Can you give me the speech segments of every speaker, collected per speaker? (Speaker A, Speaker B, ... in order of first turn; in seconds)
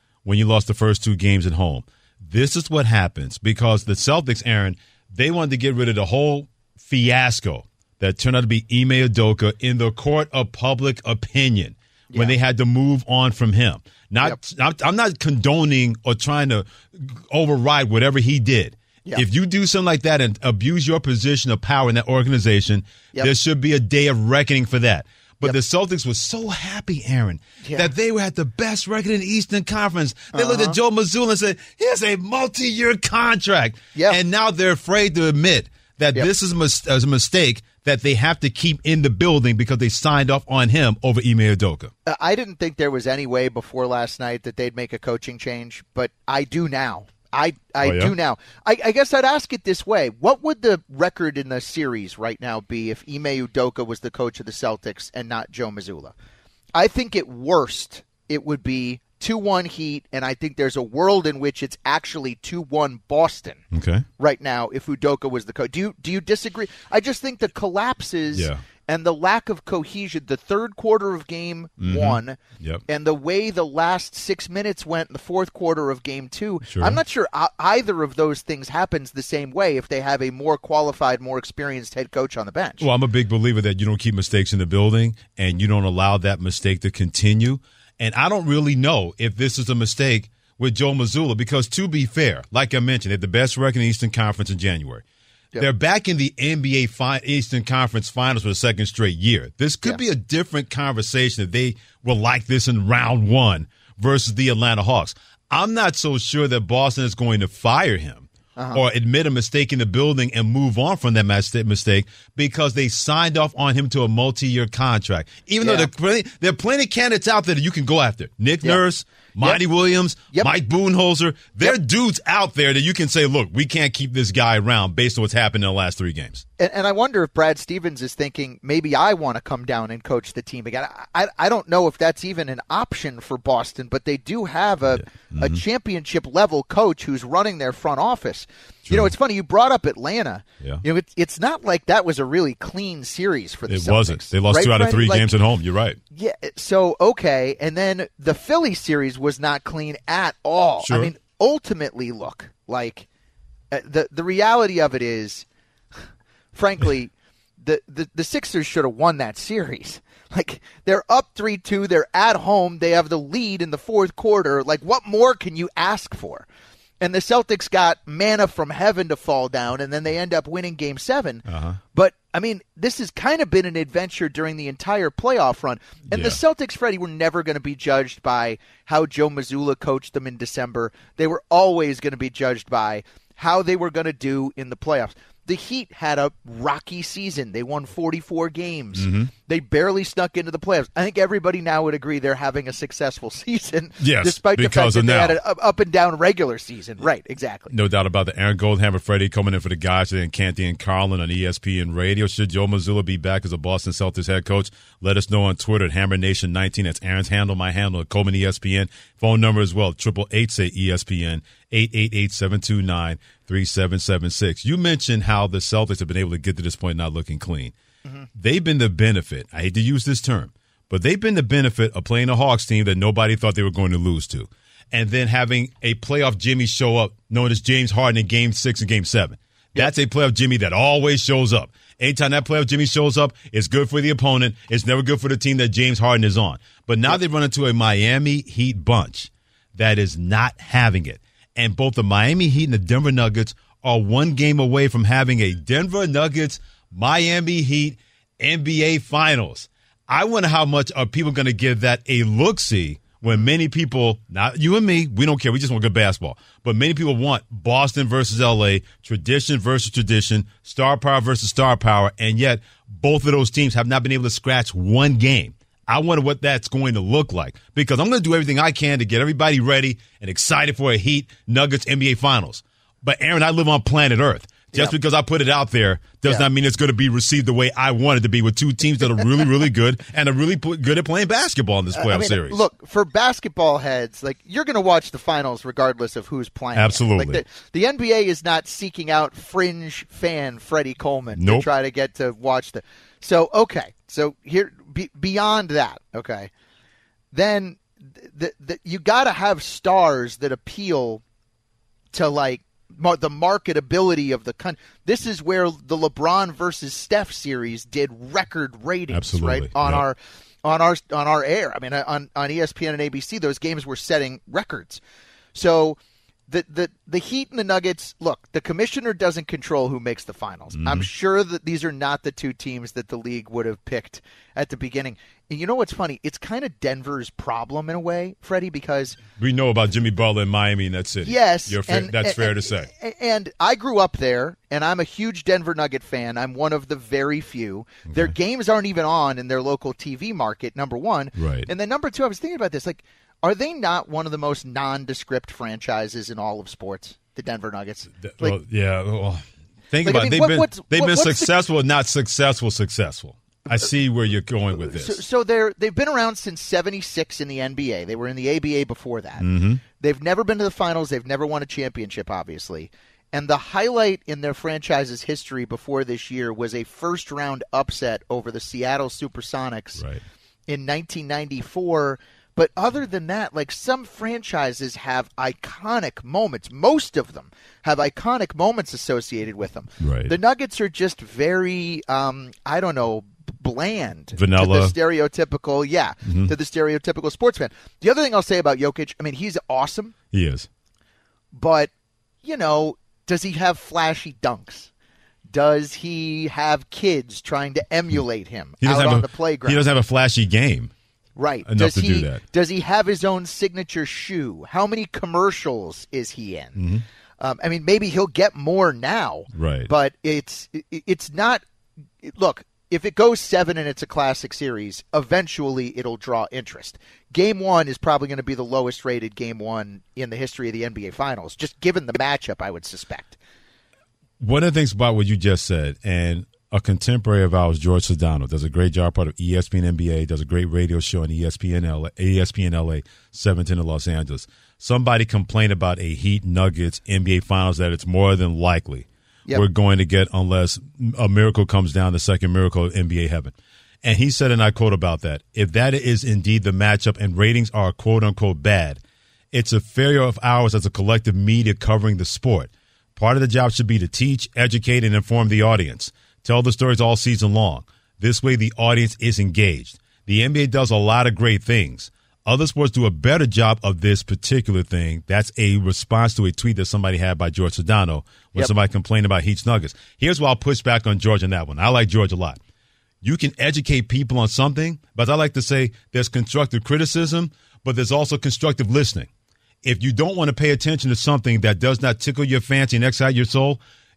Speaker A: 0.2-41.9, 47.8-48.1, 63.7-64.0, 68.3-68.6, 71.8-72.8, 76.7-77.0, 82.8-95.0, 95.6-126.4, 134.9-135.6, 143.7-146.0, 150.8-151.1, 171.5-171.8, 176.1-176.4, 188.9-189.3, 194.0-195.4, 197.7-217.7, 218.3-282.6, 286.7-287.4, 291.3-291.7, 309.1-310.0, 320.7-321.1, 329.4-332.9, 338.1-338.3, 341.4-341.7, 348.2-355.2, 359.4-359.8, 370.0-370.2, 380.0-380.3, 384.3-384.9, 386.2-386.5, 390.3-390.7, 398.8-400.9, 401.6-402.4, 406.8-407.0, 409.5-409.9, 424.4-449.0, 449.5-472.6, 473.2-479.3, 479.8-483.8
Speaker B: 27.6-27.9, 30.3-30.8, 42.0-56.1, 56.7-63.6, 64.2-82.9, 108.6-108.8, 115.6-115.9, 126.6-145.3, 146.1-153.1, 153.7-155.4, 156.5-166.4, 167.0-197.7, 274.7-275.0, 281.9-296.5, 297.3-301.2, 302.1-315.0, 315.5-316.0, 316.5-329.2, 331.2-348.6, 350.0-351.5, 354.9-359.5, 360.0-370.0, 370.7-390.1, 391.5-391.9, 392.4-394.9, 395.5-399.9, 401.4-406.8, 407.4-411.6, 412.2-423.4